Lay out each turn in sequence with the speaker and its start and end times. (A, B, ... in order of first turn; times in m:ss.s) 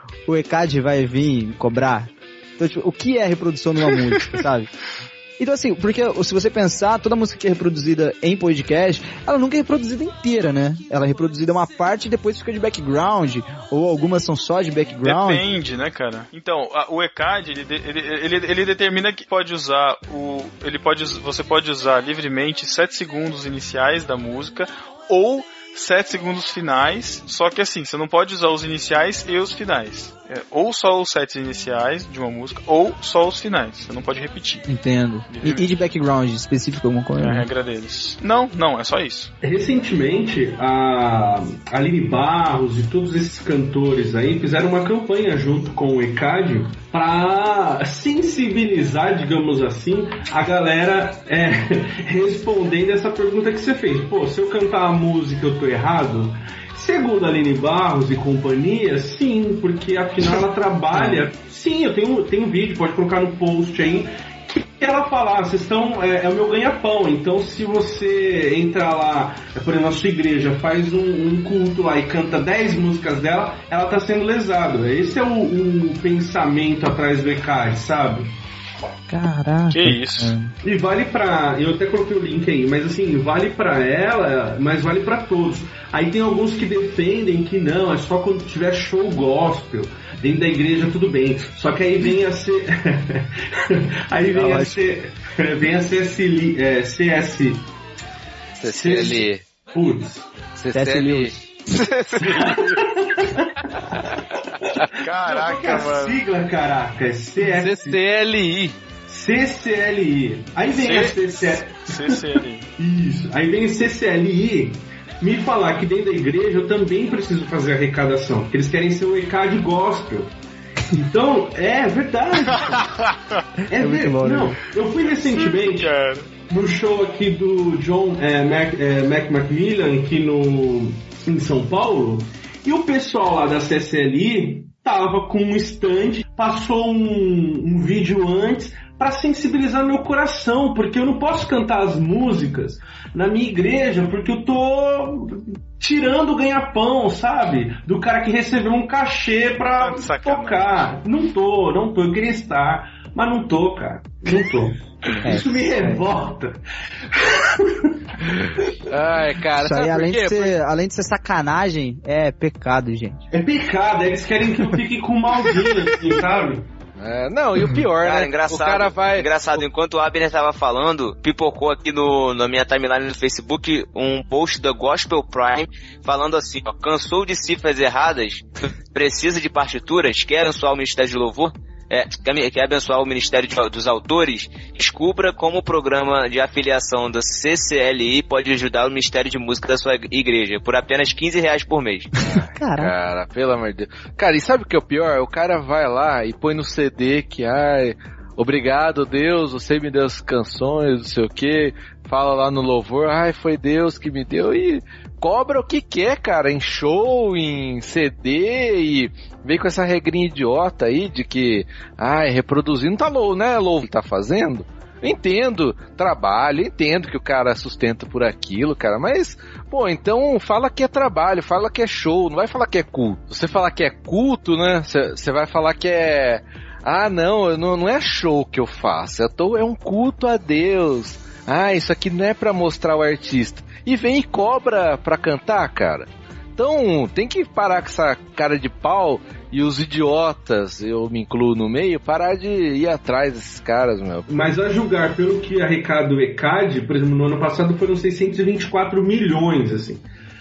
0:00.3-0:04.7 A
0:05.4-0:15.4 A
0:15.0-0:34.6 B
0:34.7-0:37.5 A
0:35.3-0:35.7 B
0:37.2-0:39.3 B
0:39.4-1:18.4 C
1:01.0-1:01.2 A
1:19.1-1:20.5 A
1:19.7-1:20.3 B
1:20.6-1:37.7 C
1:34.3-1:34.8 A
1:38.6-1:39.5 D
1:38.7-1:40.3 C
1:40.6-1:42.4 D
1:40.7-1:41.4 A
1:42.2-1:44.2 C
1:44.7-1:48.0 C
1:45.0-1:46.3 B
1:47.5-1:48.8 D
1:49.1-2:00.3 C
1:50.7-1:52.7 B
2:00.9-2:02.9 C
2:02.5-2:03.4 B
2:03.7-2:05.9 C
2:03.7-2:04.6 A
2:05.1-2:06.3 B
2:06.4-2:38.9 C
2:29.8-2:30.9 B
2:35.2-2:36.0 A
2:38.9-2:40.6 D
2:39.6-2:43.3 A
2:43.3-2:46.7 C
2:47.0-2:49.6 D
2:48.0-3:12.1 E
3:12.2-4:04.5 D
3:12.5-3:12.9 A
4:04.3-4:10.0 C